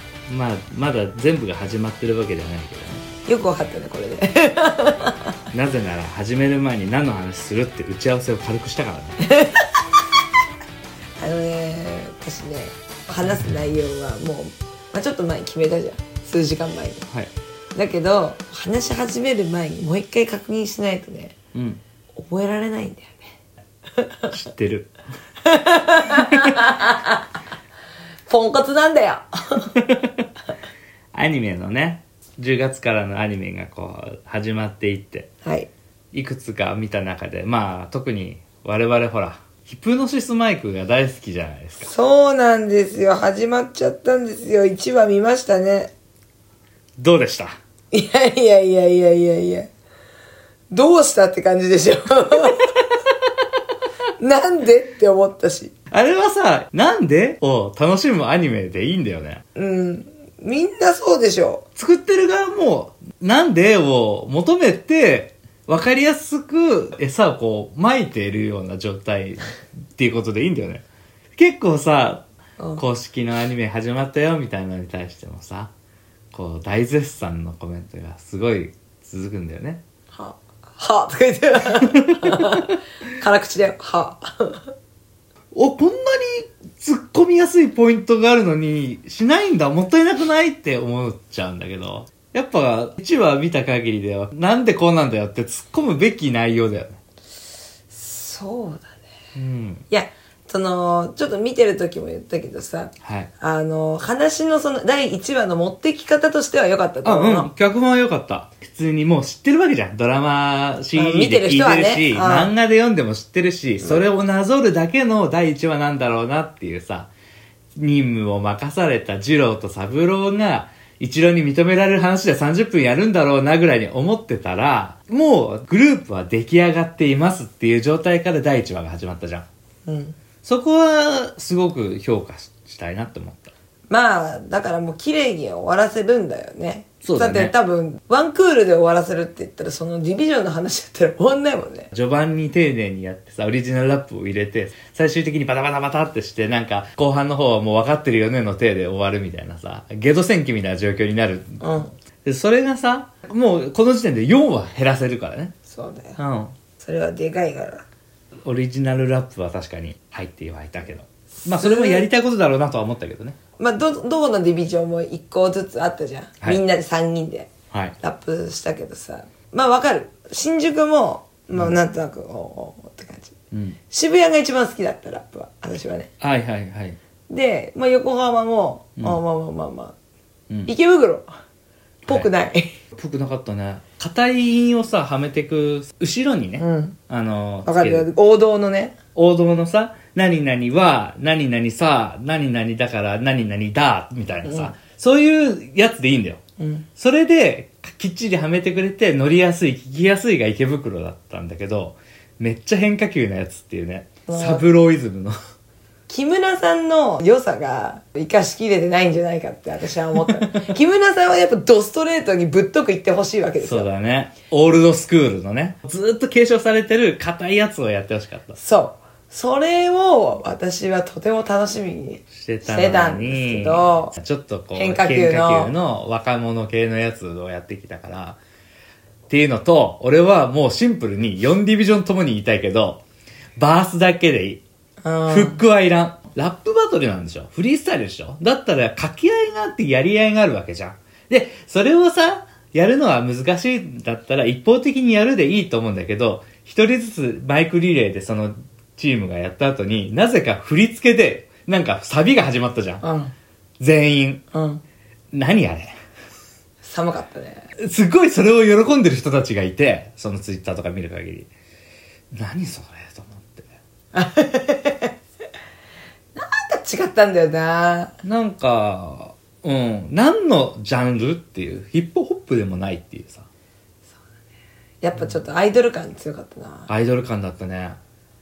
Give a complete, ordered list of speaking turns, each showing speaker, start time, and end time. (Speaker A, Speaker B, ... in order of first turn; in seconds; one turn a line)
Speaker A: 0.3-3.1
Speaker B: 3.3-5.3
Speaker A: 5.5-9.3
Speaker B: 9.2-9.8
Speaker B: 11.2-17.1
Speaker B: 17.8-21.4
Speaker A: 21.5-21.8
Speaker B: 22.2-23.2
Speaker B: 24.0-24.3
Speaker A: 24.3-24.9
Speaker B: 25.4-27.3
Speaker A: 26.3-26.6
Speaker B: 28.3-29.7
Speaker A: 29.8-30.3
Speaker A: 31.1-35.3
Speaker B: 35.4-35.7
Speaker A: 36.1-41.9
Speaker B: 41.8-45.9
Speaker A: 47.0-47.6
Speaker B: 47.9-49.7
Speaker B: 50.7-52.8
Speaker B: 54.2-55.7
Speaker A: 55.9-59.4
Speaker B: 59.5-61.6
Speaker A: 61.8-70.8
Speaker A: 71.4-72.2
Speaker A: 72.8-75.7
Speaker A: 76.3-79.8
Speaker B: 80.1-84.7
Speaker A: 81.7-82.7
Speaker A: 85.5-97.0
Speaker B: 97.9-99.0
Speaker A: 99.3-99.8
Speaker B: 99.9-107.5
Speaker A: 103.0-103.3
Speaker A: 107.0-117.1
Speaker B: 111.0-112.5
Speaker A: 117.8-129.5
Speaker B: 129.9-130.2
Speaker A: 130.4-133.5
Speaker B: 133.9-141.9
Speaker A: 137.0-137.5
Speaker A: 141.9-151.6
Speaker B: 151.6-151.9
Speaker A: 152.2-155.6
Speaker B: 155.7-156.2
Speaker A: 156.2-156.5
Speaker B: 156.8-157.8
Speaker A: 158.4-163.4
Speaker B: 161.5-162.1
Speaker B: 163.6-173.4
Speaker A: 173.5-173.8
Speaker B: 173.9-176.1
Speaker A: 176.2-177.0
Speaker B: 177.3-179.9
Speaker B: 180.7-181.3
Speaker B: 182.1-182.7
Speaker A: 182.9-188.1
Speaker B: 186.6-187.0
Speaker B: 187.7-189.0
Speaker A: 189.2-196.4
Speaker B: 194.4-194.7
Speaker B: 196.6-196.9
Speaker A: 197.0-205.4
Speaker B: 204.3-204.6
Speaker B: 206.1-213.9
Speaker A: 210.4-210.7
Speaker A: 213.6-218.6
Speaker B: 218.6-224.2
Speaker A: 222.3-228.4
Speaker B: 224.8-225.7
Speaker A: 229.3-233.0
Speaker A: 233.6-234.6
Speaker B: 235.0-235.6
Speaker A: 235.3-253.0
Speaker B: 253.0-253.3
Speaker A: 253.8-254.4
Speaker B: 254.5-254.8
Speaker A: 255.3-255.9
Speaker B: 256.8-257.7
Speaker A: 257.8-261.5
Speaker A: 262.3-263.7
Speaker B: 264.1-265.1
Speaker B: 266.4-268.1
Speaker A: 268.2-273.5
Speaker B: 275.0-276.9
Speaker A: 276.9-278.0